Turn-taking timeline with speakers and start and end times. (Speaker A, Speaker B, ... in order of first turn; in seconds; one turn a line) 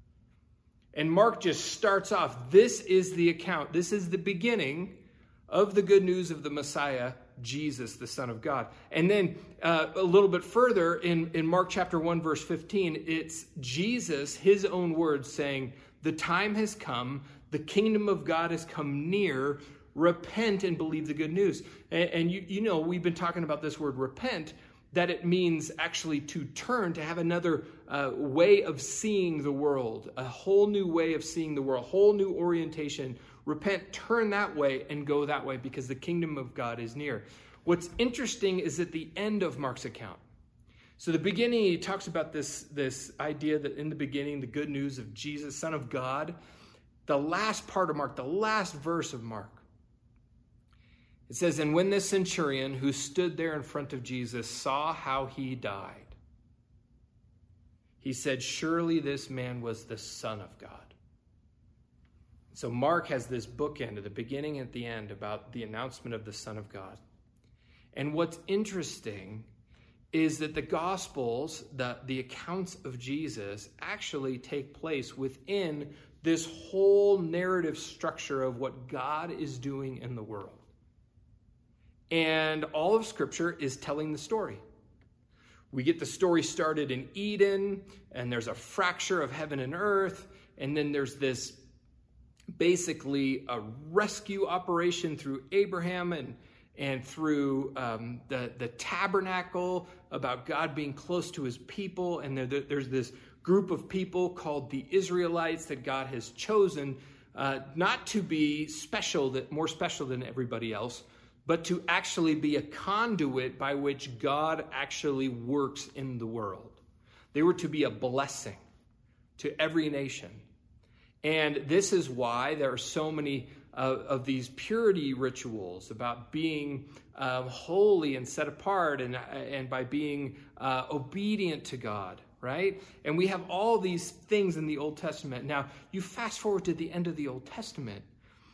Speaker A: 0.9-40.2
Speaker A: 41.0-46.4
Speaker A: 47.0-49.6
Speaker A: 51.3-56.1
Speaker A: 58.0-60.9
Speaker A: 62.5-67.0
Speaker A: 67.9-69.5
Speaker A: 70.1-80.6
Speaker A: 82.1-84.6
Speaker A: 85.7-91.6
Speaker A: 92.5-116.8
Speaker A: 117.3-118.6
Speaker A: 119.4-120.4
Speaker A: 121.2-138.1